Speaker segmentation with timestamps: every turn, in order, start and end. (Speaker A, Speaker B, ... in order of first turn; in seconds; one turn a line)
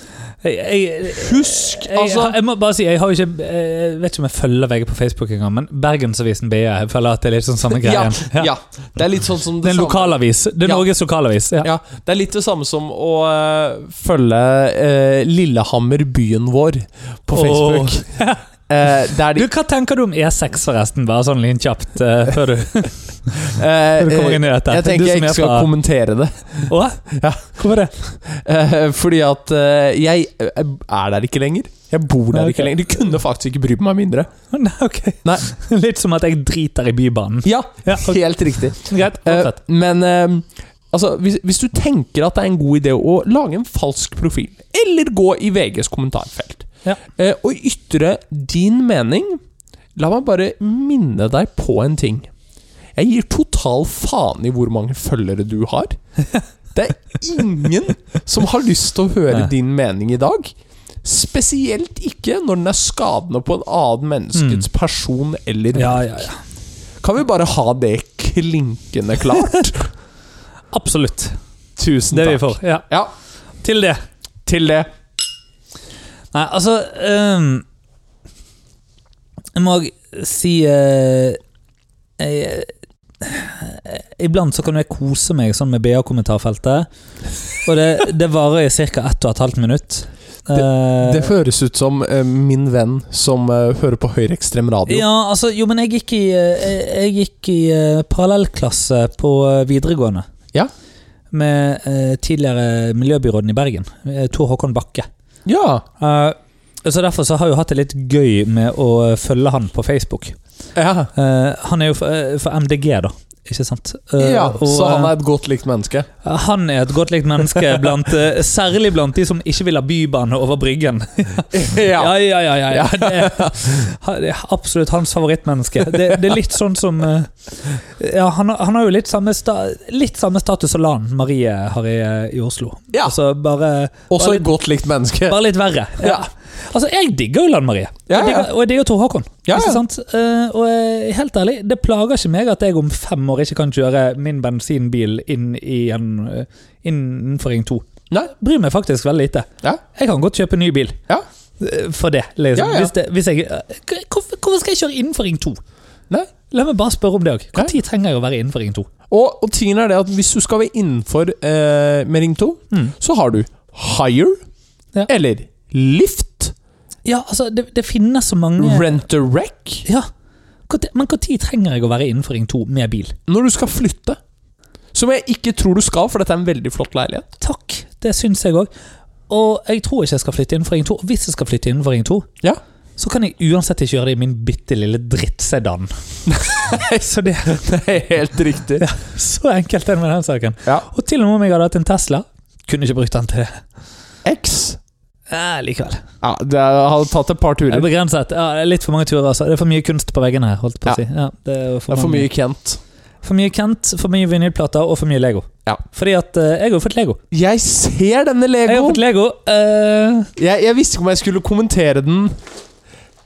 Speaker A: 0.4-8.5
Speaker B: 1.1-2.4
Speaker B: 7.7-10.8
Speaker A: 9.6-11.7
Speaker B: 11.6-18.0
Speaker A: 17.3-18.4
Speaker B: 18.7-19.5
Speaker A: 19.2-23.4
Speaker B: 23.4-34.3
Speaker A: 24.0-25.7
Speaker A: 26.7-27.9
Speaker A: 32.3-32.8
Speaker A: 34.5-39.6
Speaker B: 37.4-49.4
Speaker B: 50.0-52.3
Speaker B: 53.0-56.0
Speaker B: 56.7-66.3
Speaker A: 64.3-64.6
Speaker A: 65.7-66.4
Speaker B: 67.0-69.9
Speaker A: 70.7-71.4
Speaker B: 71.8-73.1
Speaker A: 72.1-72.8
Speaker A: 73.6-74.0
Speaker B: 74.5-74.9
Speaker A: 76.3-77.6
Speaker A: 79.5-81.4
Speaker A: 82.2-86.9
Speaker A: 87.6-91.3
Speaker B: 90.5-95.0
Speaker A: 94.9-100.2
Speaker A: 101.3-105.1
Speaker B: 105.5-105.8
Speaker A: 106.0-110.4
Speaker B: 110.7-111.1
Speaker A: 111.1-115.1
Speaker B: 114.2-116.1
Speaker A: 116.2-134.5
Speaker B: 121.5-123.7
Speaker B: 134.1-135.4
Speaker A: 135.2-151.0
Speaker B: 136.0-136.3
Speaker B: 138.1-138.5
Speaker B: 139.4-139.8
Speaker A: 151.6-155.6
Speaker B: 152.5-152.9
Speaker A: 156.5-158.9
Speaker B: 159.1-164.4
Speaker B: 165.1-166.5
Speaker A: 167.0-168.9
Speaker B: 168.6-169.9
Speaker A: 170.7-173.2
Speaker B: 173.3-174.2
Speaker B: 174.9-177.3
Speaker A: 177.4-178.7
Speaker A: 179.3-182.3
Speaker A: 183.0-187.6
Speaker B: 186.3-188.9
Speaker A: 188.8-193.6
Speaker B: 194.2-194.8
Speaker A: 195.3-196.0
Speaker B: 196.2-197.9
Speaker A: 197.7-202.3
Speaker B: 201.9-202.8
Speaker A: 203.2-207.2
Speaker B: 207.3-209.0
Speaker A: 208.7-210.3
Speaker B: 210.4-212.3